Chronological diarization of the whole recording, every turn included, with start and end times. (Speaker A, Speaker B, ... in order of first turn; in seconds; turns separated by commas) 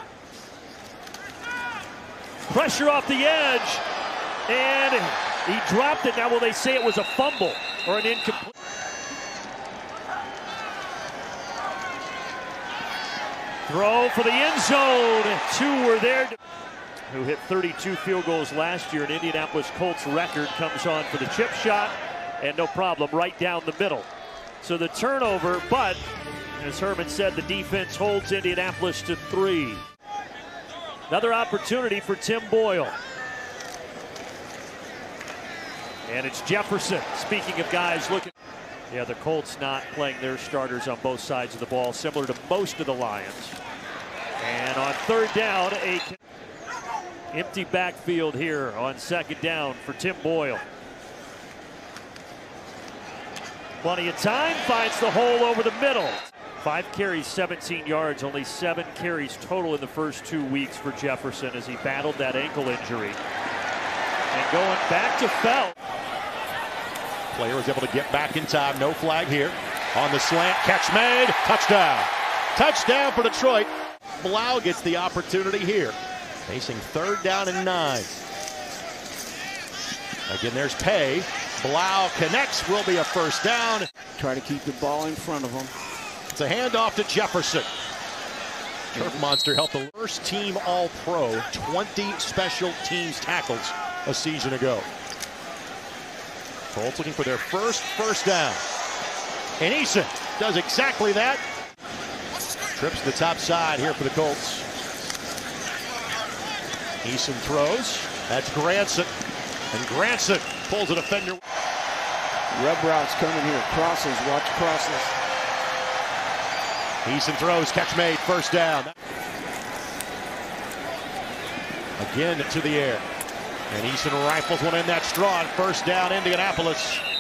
Speaker A: 2.5-3.8, Speaker A: 4.5-8.5, Speaker A: 13.7-16.4, Speaker A: 17.1-24.1, Speaker A: 24.6-26.0, Speaker A: 26.6-29.8, Speaker A: 31.1-33.0, Speaker A: 36.1-38.3, Speaker A: 38.9-43.6, Speaker A: 44.4-46.2, Speaker A: 47.3-50.6, Speaker A: 53.8-63.2, Speaker A: 64.3-65.8, Speaker B: 67.3-76.0, Speaker B: 76.5-78.2, Speaker B: 80.3-83.9, Speaker C: 84.2-85.7, Speaker B: 86.3-87.7, Speaker B: 88.9-94.9, Speaker C: 89.0-89.2, Speaker B: 96.7-98.6, Speaker B: 99.6-101.4, Speaker B: 102.8-104.7, Speaker B: 107.0-109.1, Speaker B: 109.7-111.4, Speaker C: 112.5-115.1, Speaker B: 117.0-118.9, Speaker B: 122.0-123.0, Speaker B: 123.7-127.0